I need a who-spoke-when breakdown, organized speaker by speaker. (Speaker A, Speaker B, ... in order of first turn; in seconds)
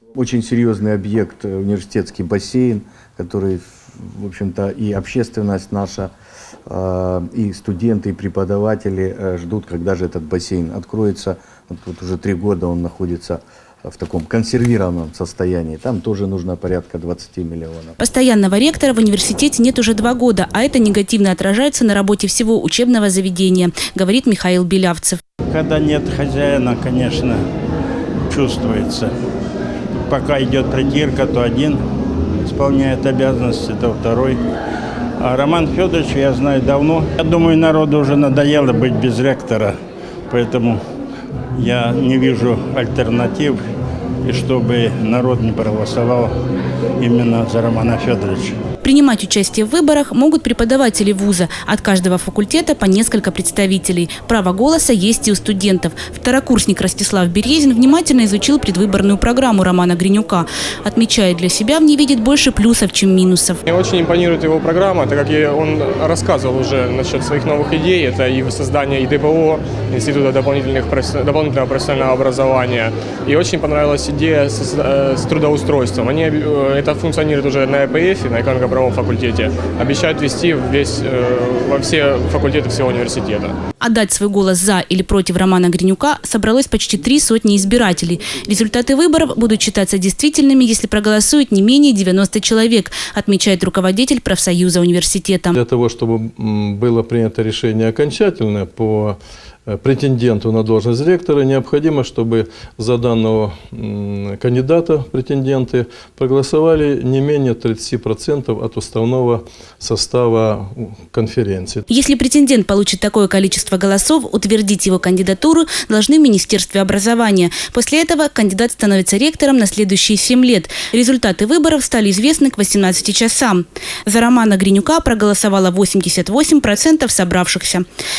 Speaker A: 0.1-6.1, 6.7-18.0
Speaker B: 18.0-25.2, 48.8-63.6, 83.8-95.6, 111.9-127.8
Speaker C: 25.5-27.4, 28.3-29.1, 30.0-31.8, 32.5-34.4, 35.2-39.8, 40.3-40.8, 41.6-43.6, 44.2-46.3, 47.0-48.6
Speaker D: 63.7-83.5
Speaker E: 95.5-111.8